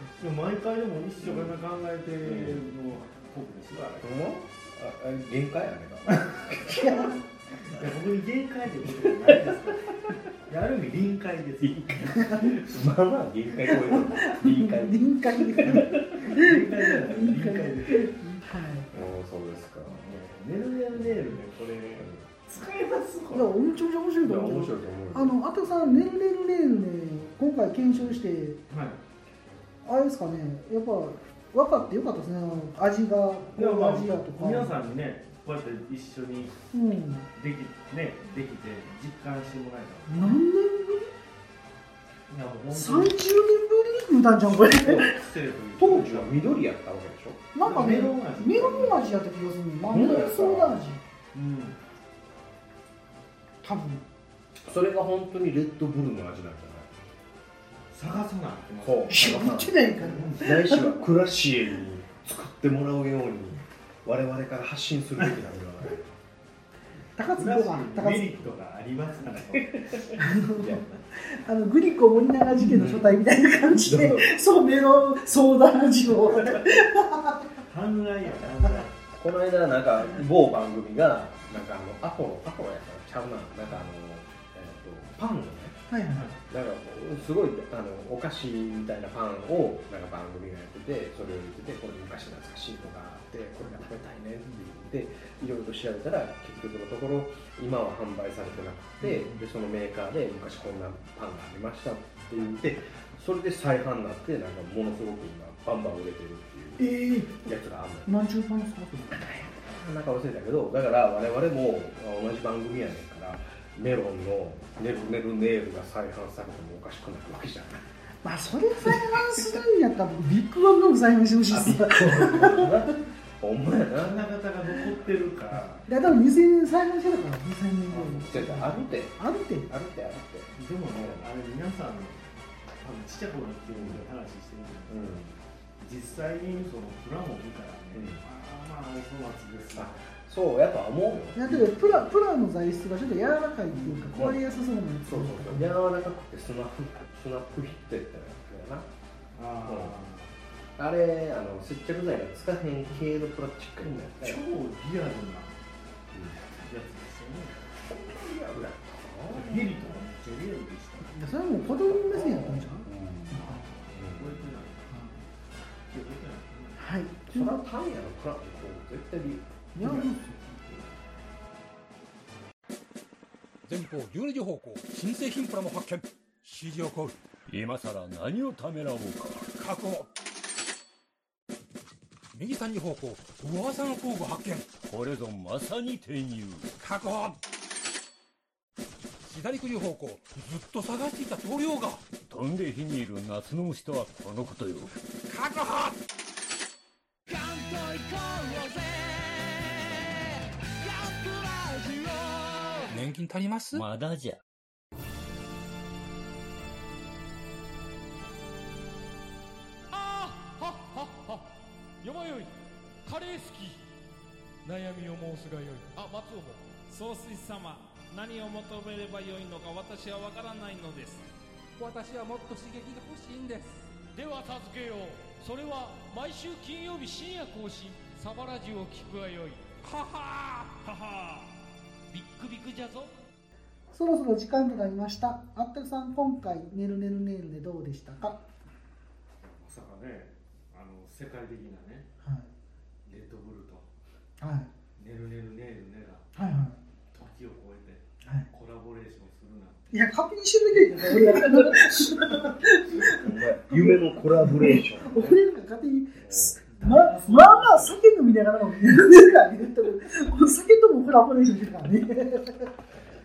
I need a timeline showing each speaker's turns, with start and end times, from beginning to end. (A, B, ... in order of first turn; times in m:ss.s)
0:00.2-0:04.2 A
0:02.2-0:02.6 B
0:04.0-0:07.1 B
0:06.1-0:06.4 A
0:06.7-0:07.2 C
0:07.6-0:09.8 A
0:10.5-0:12.5 A
0:11.6-0:16.2 B
0:13.6-0:18.9 C
0:15.7-0:18.1 A
0:18.9-0:20.2 B
0:19.8-0:23.6 A
0:23.3-0:28.6 C
0:24.2-0:25.4 B
0:28.7-0:29.0 A
0:29.8-0:34.7 C
0:33.6-0:36.6 A
0:36.7-0:37.2 C
0:37.3-0:40.4 A
0:40.1-0:41.1 C
0:42.3-0:43.2 A
0:42.7-0:45.2 C
0:44.5-0:46.6 A
0:45.8-0:47.4 B
0:47.5-0:51.0 C
0:47.6-0:49.0 A
0:49.8-0:50.8 B
0:51.3-0:51.8 A
0:53.6-0:54.0 C
0:54.6-0:56.9 B
0:57.9-0:59.3 A
0:58.8-1:06.0 B
0:59.1-1:00.9 C
1:00.0-1:00.6 A
1:07.2-1:08.3 C
1:07.3-1:10.0 A
1:09.5-1:10.8 B
1:10.2-1:17.5 C
1:12.7-1:13.2 B
1:13.7-1:14.4 B
1:17.6-1:19.0 A
1:19.2-1:25.8 B
1:25.9-1:26.3 C
1:26.1-1:26.4 A
1:26.5-1:48.1 B
1:39.0-1:39.4 A
1:46.8-1:47.3 A
1:48.0-1:49.3 C
1:49.2-1:57.8 B
1:58.2-2:02.7 C
1:58.9-1:59.2 B
2:01.5-2:04.2 B
2:03.9-2:05.8 A
2:05.9-2:09.7 C
2:07.9-2:08.4 A
2:08.2-2:09.2 B
2:09.7-2:11.2 B
2:10.5-2:15.2 A
2:13.7-2:14.0 B
2:14.9-2:15.3 B
2:15.8-2:20.0 A
2:17.9-2:18.2 B
2:19.7-2:22.0 B
2:21.3-2:25.7 C
2:23.7-2:24.3 A
2:24.1-2:24.4 B
2:25.0-2:28.9 B
2:29.3-2:30.3 A
2:29.6-2:29.9 B
2:30.8-2:34.4 B
2:33.8-2:35.5 A
2:36.1-2:36.4 B
2:36.6-2:37.6 A
2:37.8-2:39.9 B
2:39.3-2:41.2 A
2:41.1-2:43.6 C
2:41.7-2:44.3 B
2:43.3-2:45.3 A
2:45.9-2:46.8 A
2:46.8-2:47.6 C
2:47.3-2:50.2 B
2:49.7-2:50.2 C
2:53.7-2:57.2 D
2:57.5-2:59.5 E
2:59.5-3:00.1 D
3:02.3-3:04.7 D
3:04.8-3:06.7 E
3:06.8-3:07.4 D
3:09.2-3:12.1 D
3:12.2-3:14.9 E
3:15.3-3:16.0 D
3:17.3-3:23.0 F
3:22.9-3:23.8 D
3:23.7-3:24.4 E
3:29.9-3:31.5 F
3:32.0-3:32.5 F
3:33.0-3:33.8 F
3:34.6-3:41.2 F
3:41.8-3:51.5 F
3:52.1-3:53.1 F
3:53.9-3:58.4 C
3:59.4-4:02.1 A
4:02.2-4:02.5 C
4:03.0-4:03.9 A
4:04.4-4:04.7 C
4:05.0-4:06.3 A
4:06.3-4:06.8 C
4:07.1-4:10.3 A
4:09.9-4:22.7 C
4:11.0-4:11.4 A
4:13.1-4:15.3 B
4:16.2-4:16.6 B
4:16.7-4:18.1 A